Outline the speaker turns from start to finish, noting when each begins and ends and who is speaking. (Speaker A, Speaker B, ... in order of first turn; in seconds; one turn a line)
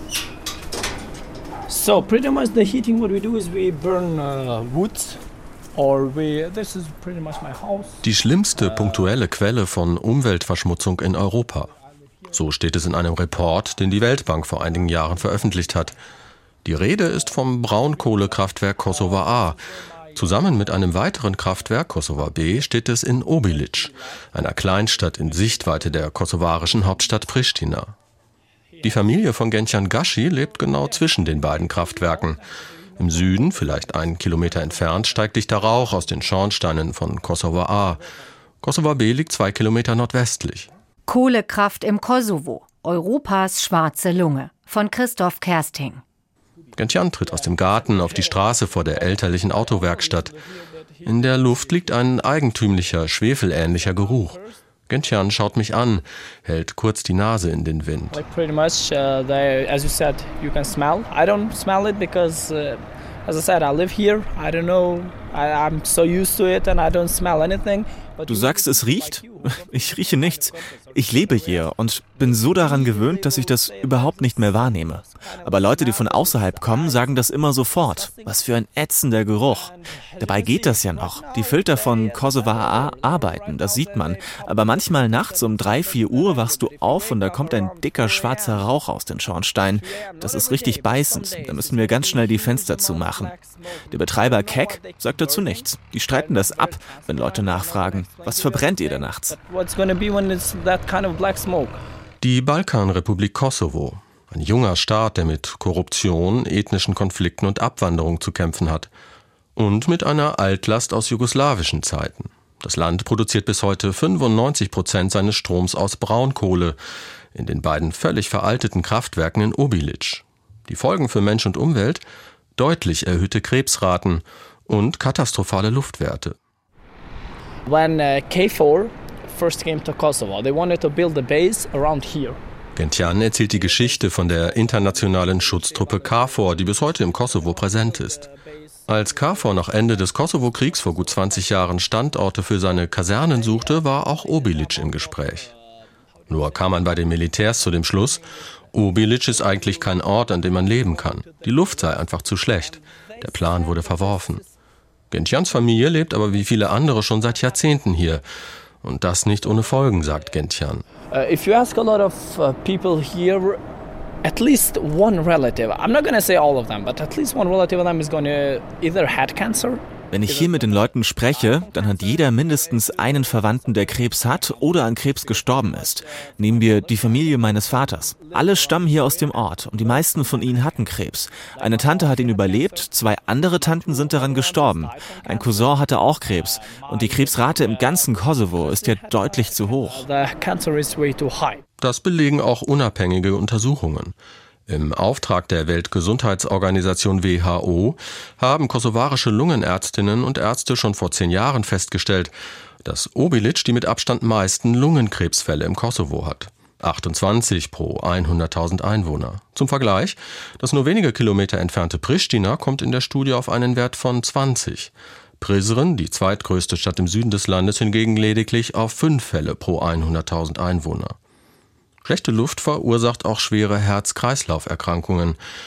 Speaker A: 1.7-5.2
Speaker A: 5.8-8.0
Speaker B: 8.0-11.7
Speaker B: 12.3-16.0
Speaker B: 16.6-19.6
Speaker B: 20.1-27.9
Speaker B: 28.8-32.4
Speaker B: 33.0-38.0
Speaker B: 38.6-40.7
Speaker C: 41.1-46.0
Speaker B: 46.8-50.4
Speaker B: 51.0-58.2
Speaker A: 58.1-69.1
Speaker D: 68.2-93.3
Speaker A: 72.4-73.2
Speaker A: 80.2-80.8
Speaker A: 81.3-83.0
Speaker A: 87.0-88.6
Speaker A: 89.8-93.6
Speaker D: 93.9-99.4
Speaker A: 94.2-95.6
Speaker A: 96.1-101.8
Speaker B: 102.2-108.9
Speaker B: 109.5-116.8
Speaker B: 117.3-122.0
Speaker B: 122.6-126.3
Speaker A: 127.7-132.4
Speaker B: 132.8-138.2
Speaker A: 135.0-136.2
Speaker A: 137.3-138.7
Speaker B: 138.9-145.5
Speaker B: 146.3-154.4
Speaker B: 155.1-158.2
Speaker B: 158.8-160.8
Speaker A: 161.1-163.6
Speaker A: 164.2-170.4
Speaker D: 170.1-190.1
Speaker A: 181.6-182.8
Speaker A: 183.6-185.6
Speaker A: 186.6-191.6
Speaker B: 191.8-194.1
Speaker B: 194.7-221.2
Speaker B: 222.0-225.4